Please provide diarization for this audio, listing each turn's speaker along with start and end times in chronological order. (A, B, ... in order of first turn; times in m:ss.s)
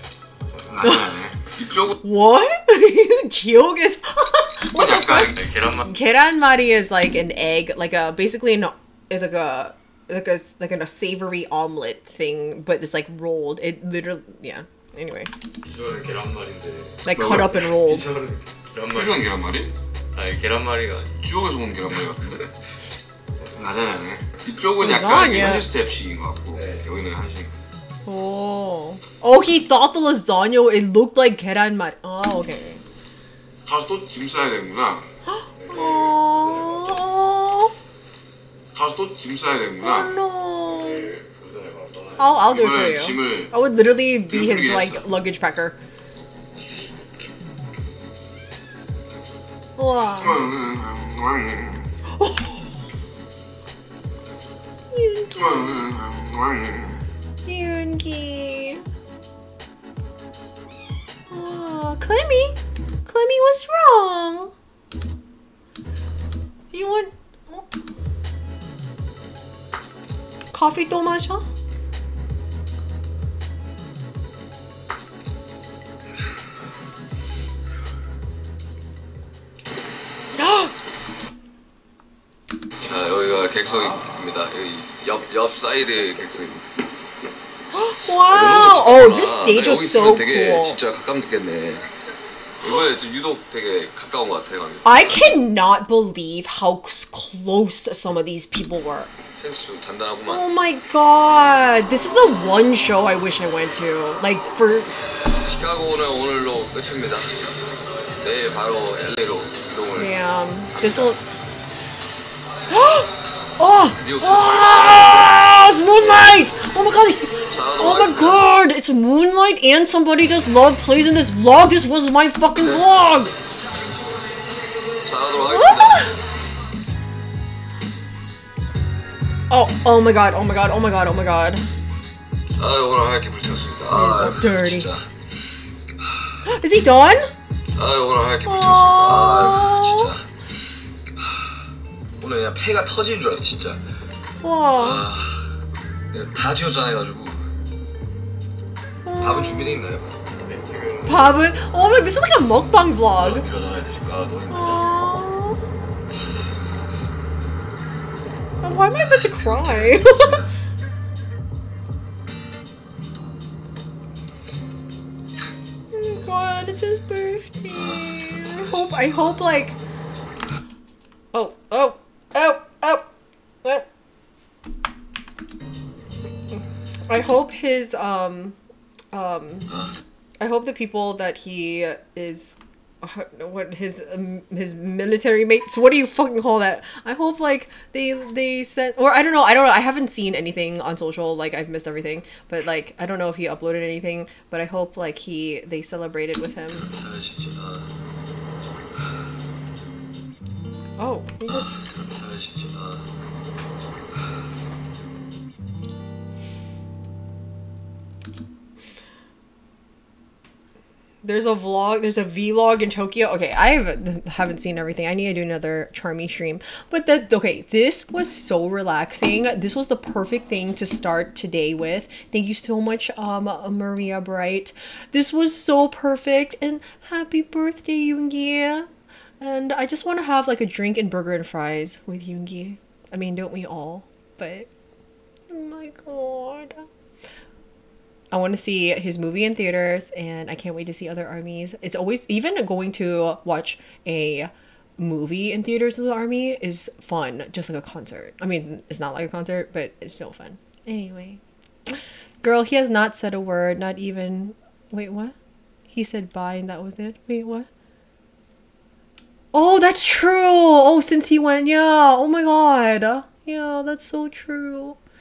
0:00.5-0:01.0 A
0:00.7-0:02.0 B
0:02.0-0:15.3 C
0:04.7-0:05.4 B
0:05.3-0:05.9 A
0:15.6-0:19.3 A
0:17.0-0:18.0 C
0:17.1-0:17.6 B
0:18.9-0:19.7 B
0:20.1-0:21.2 A
0:21.2-0:22.4 B
0:23.6-0:27.5 B
0:24.8-0:25.7 C
0:26.5-0:26.8 A
0:28.0-0:32.8 C
0:33.6-0:35.0 B
0:35.2-0:37.7 C
0:35.6-0:37.0 A
0:38.7-0:40.1 B
0:39.8-0:41.1 C
0:40.8-0:42.3 A
0:42.2-0:45.7 C
0:42.5-0:43.5 B
0:44.2-0:45.0 B
0:49.8-0:50.5 C
0:50.2-0:51.9 B
0:52.2-0:52.7 C
0:54.9-0:55.7 C
0:55.3-0:57.0 B
0:57.4-0:58.8 C
1:01.3-1:04.5 C
1:06.7-1:07.7 C
1:10.5-1:11.4 C
1:20.4-1:20.7 C
1:22.8-1:26.7 B
1:27.7-1:30.8 C
1:27.9-1:31.9 B
1:32.6-1:35.3 B
1:34.8-1:39.1 C
1:39.4-1:40.4 B
1:40.2-1:44.9 C
1:45.4-1:47.4 B
1:48.2-1:50.1 B
1:50.0-1:51.2 C
1:50.7-1:51.2 B
1:52.7-2:03.3 C
1:54.0-1:55.5 B
1:57.5-1:58.5 B
2:05.0-2:06.2 B
2:05.4-2:06.2 C
2:09.5-2:11.6 C
2:12.6-2:15.4 B
2:13.9-2:14.9 C
2:16.0-2:16.3 B
2:16.4-2:17.3 C
2:17.7-2:20.4 B
2:18.4-2:20.1 C
2:21.2-2:21.6 B
2:22.2-2:23.8 B
2:24.4-2:25.0 C
2:24.7-2:27.5 B
2:29.0-2:29.7 C
2:29.2-2:30.2 B
2:30.3-2:31.8 A
2:31.1-2:33.4 C
2:33.2-2:34.9 B
2:34.5-2:35.6 C
2:38.6-2:40.4 C
2:39.0-2:40.5 B
2:45.9-2:49.8 C
2:47.7-2:48.9 B
2:51.3-2:53.1 C
2:57.1-2:58.6 C
2:59.1-2:59.7 C
3:00.4-3:16.9 C
3:16.8-3:17.9 B
3:21.0-3:21.8 C
3:21.5-3:23.1 B
3:31.2-3:48.9 C
3:49.4-3:54.7 C
3:55.5-3:56.8 C
3:58.3-4:15.3 C
4:15.9-4:17.7 C
4:19.5-4:25.0 C